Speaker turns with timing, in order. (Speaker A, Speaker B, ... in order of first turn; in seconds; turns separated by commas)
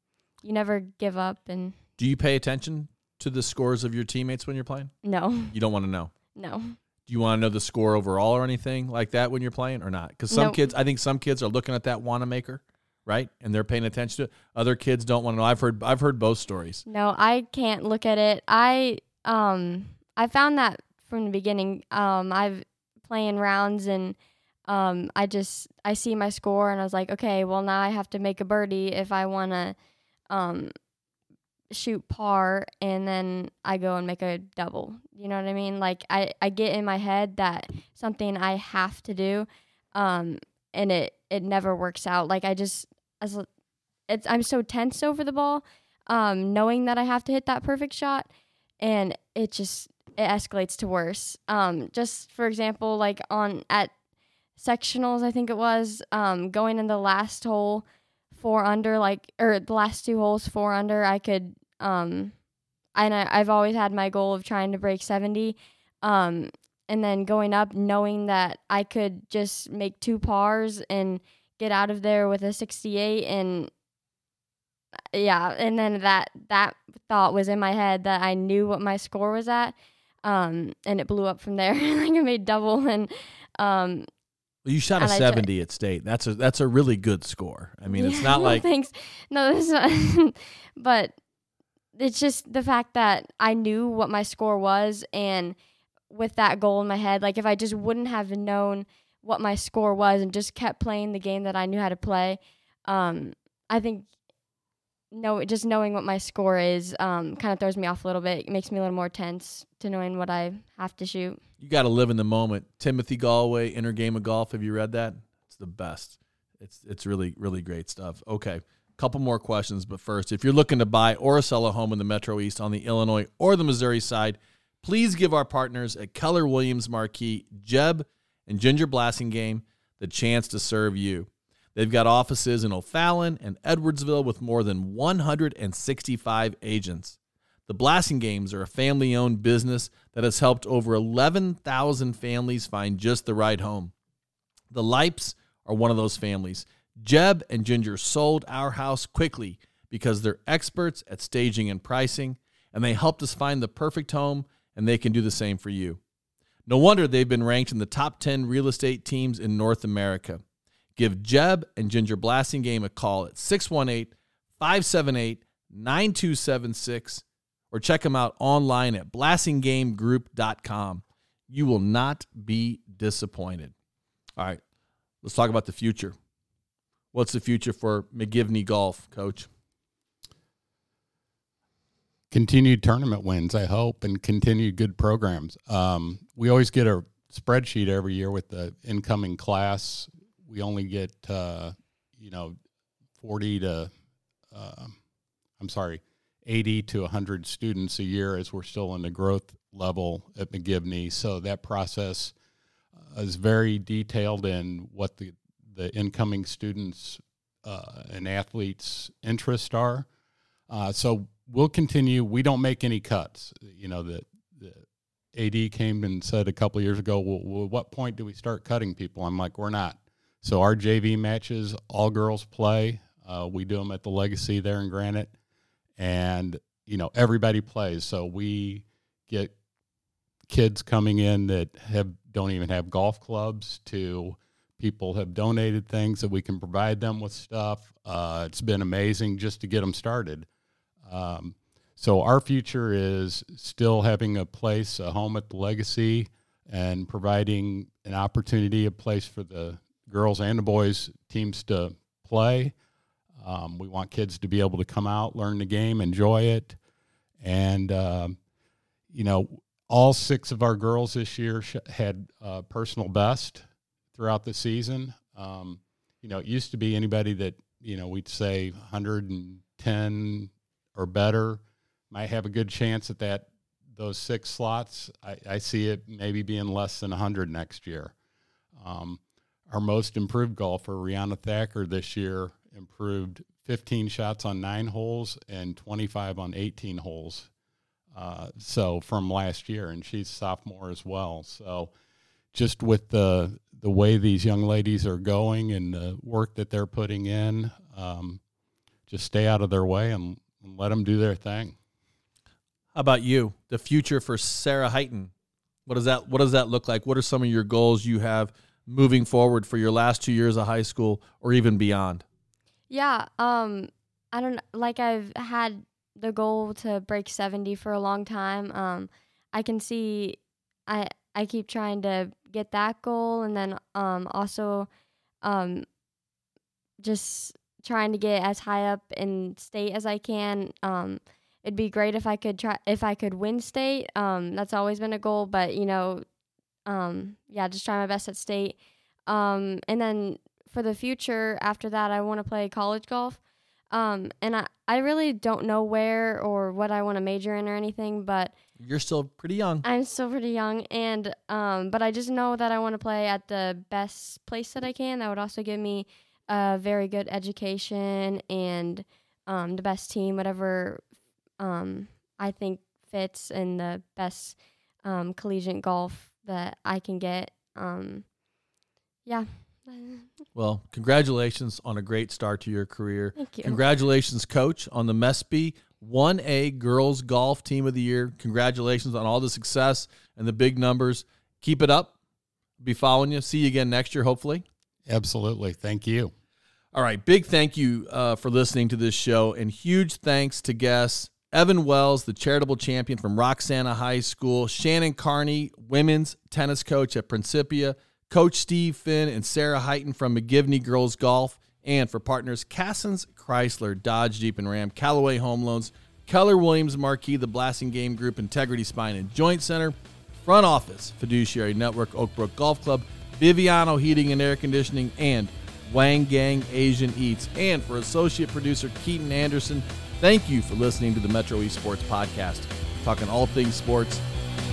Speaker A: 0.4-1.8, Speaker B: 2.0-4.9, Speaker A: 5.0-5.5, Speaker B: 5.5-6.1, Speaker A: 6.3-6.8, Speaker B: 7.1-16.8, Speaker A: 10.3-10.6, Speaker A: 16.9-24.1, Speaker A: 24.7-29.8, Speaker A: 30.3-30.7, Speaker A: 31.7-43.5, Speaker A: 44.1-48.3, Speaker A: 48.8-53.9, Speaker A: 54.6-62.3, Speaker A: 62.9-73.7, Speaker A: 75.1-84.1, Speaker B: 84.6-88.6, Speaker A: 85.0-85.5, Speaker A: 87.9-91.2, Speaker A: 91.9-95.5, Speaker A: 96.1-104.1, Speaker A: 105.1-111.4, Speaker B: 111.6-143.9, Speaker B: 144.7-156.0, Speaker B: 156.7-160.4, Speaker B: 160.9-173.7, Speaker B: 175.2-176.2, Speaker B: 177.1-179.5, Speaker C: 182.3-192.6, Speaker C: 193.2-193.9, Speaker C: 194.5-194.9, Speaker C: 195.6-202.3, Speaker C: 203.1-210.1, Speaker C: 210.7-225.3, Speaker C: 226.0-229.5, Speaker C: 230.5-240.4, Speaker C: 241.0-252.7, Speaker C: 253.4-256.8, Speaker C: 257.4-258.4, Speaker C: 259.1-278.1, Speaker C: 278.8-287.5, Speaker C: 288.1-291.9, Speaker C: 292.5-298.4, Speaker C: 299.1-301.8, Speaker B: 302.9-305.3, Speaker B: 305.9-312.2, Speaker A: 312.9-324.9, Speaker A: 325.4-325.9, Speaker A: 327.0-336.2, Speaker A: 336.9-338.8, Speaker A: 339.3-343.4, Speaker A: 343.9-348.5, Speaker B: 348.8-349.8, Speaker A: 349.8-361.0, Speaker A: 361.6-368.2, Speaker A: 369.2-370.3, Speaker B: 370.5-382.1, Speaker A: 373.4-373.8, Speaker B: 382.8-384.6, Speaker C: 385.1-386.3, Speaker B: 386.9-424.2